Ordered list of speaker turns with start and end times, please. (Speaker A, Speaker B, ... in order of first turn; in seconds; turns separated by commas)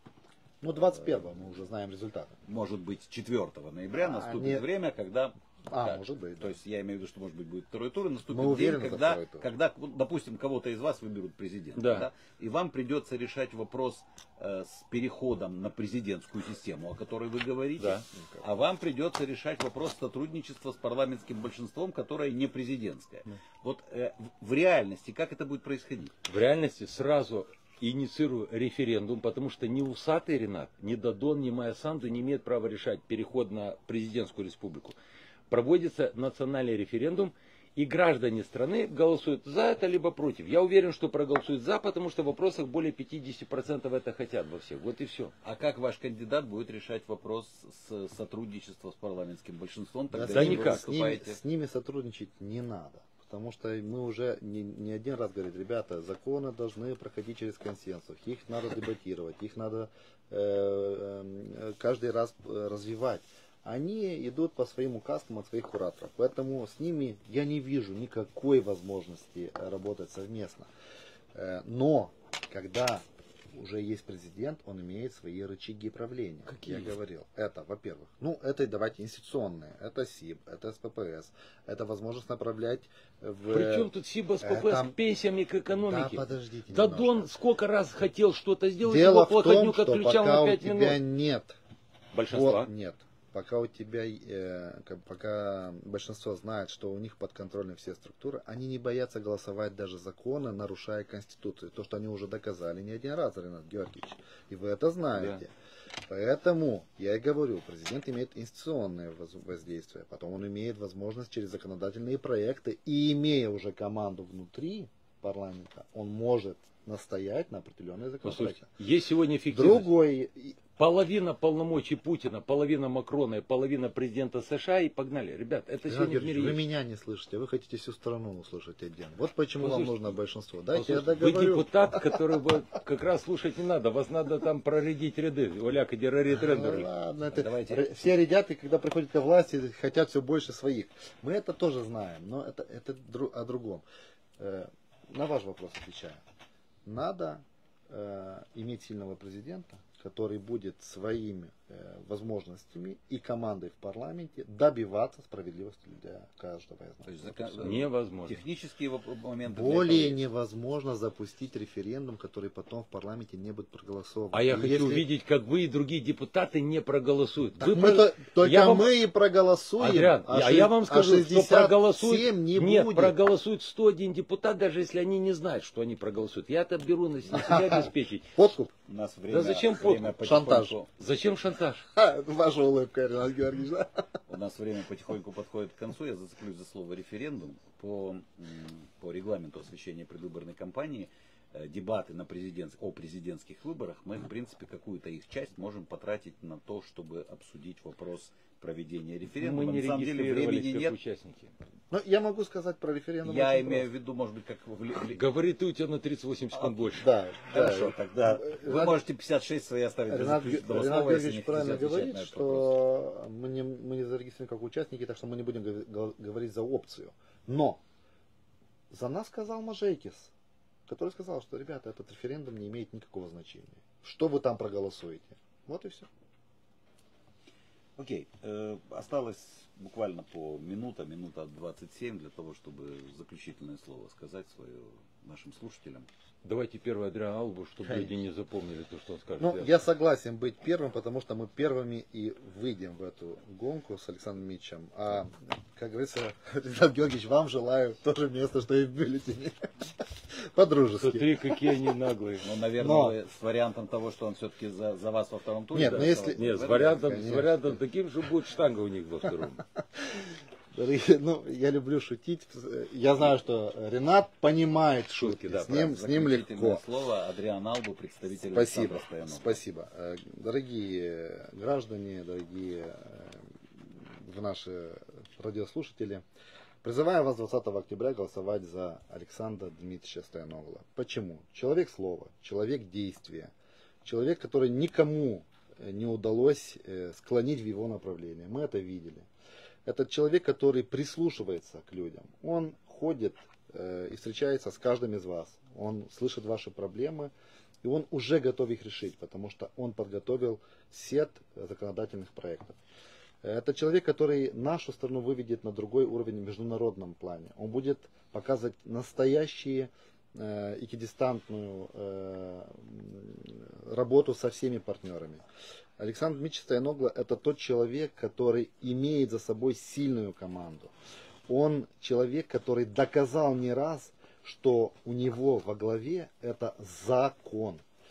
Speaker A: 0.6-2.4, Speaker B: 2.5-26.1, Speaker A: 4.0-4.6, Speaker A: 5.7-6.6, Speaker A: 8.3-9.4, Speaker C: 11.8-12.1, Speaker C: 17.8-18.0, Speaker A: 18.1-18.4, Speaker C: 26.3-35.0, Speaker C: 35.5-45.3, Speaker B: 45.4-51.4, Speaker A: 50.1-70.7, Speaker C: 50.3-50.8, Speaker A: 71.3-83.9, Speaker C: 76.5-76.9, Speaker C: 83.5-91.0, Speaker A: 84.4-84.9, Speaker A: 85.7-87.3, Speaker A: 88.8-91.6, Speaker C: 92.1-92.7, Speaker A: 92.3-105.5, Speaker A: 106.1-118.7, Speaker C: 118.2-119.9, Speaker A: 119.5-120.6, Speaker C: 120.8-126.6, Speaker A: 125.8-132.2, Speaker C: 129.6-130.0, Speaker C: 130.7-136.9, Speaker A: 136.3-143.8, Speaker B: 137.3-137.9, Speaker A: 144.4-146.2, Speaker A: 146.8-157.8, Speaker B: 157.1-160.2, Speaker C: 157.6-158.4, Speaker A: 159.4-165.0, Speaker C: 164.3-168.9, Speaker A: 167.6-173.2, Speaker C: 169.8-178.3, Speaker A: 177.3-178.7, Speaker B: 178.8-180.9, Speaker C: 179.3-180.2, Speaker A: 180.2-180.7, Speaker C: 181.0-181.9, Speaker A: 181.9-184.0, Speaker B: 184.3-201.0, Speaker C: 199.4-201.5, Speaker A: 201.9-203.9, Speaker B: 203.2-205.3, Speaker C: 205.1-207.1, Speaker A: 206.9-209.0, Speaker B: 207.5-212.8, Speaker A: 210.1-217.8, Speaker A: 218.9-220.3, Speaker A: 220.9-226.1, Speaker B: 228.0-236.1, Speaker C: 236.4-239.7, Speaker A: 237.8-238.2, Speaker A: 239.4-251.3, Speaker C: 251.0-252.5, Speaker B: 252.4-257.0, Speaker A: 252.8-253.2, Speaker A: 255.7-257.8, Speaker C: 255.7-259.6, Speaker A: 260.0-266.8, Speaker C: 265.2-265.8, Speaker B: 265.6-269.6, Speaker A: 268.5-276.2, Speaker A: 276.8-283.5, Speaker A: 284.0-289.3, Speaker A: 289.9-297.3, Speaker A: 297.8-302.8, Speaker A: 303.4-315.4, Speaker A: 316.0-320.9, Speaker A: 321.5-327.8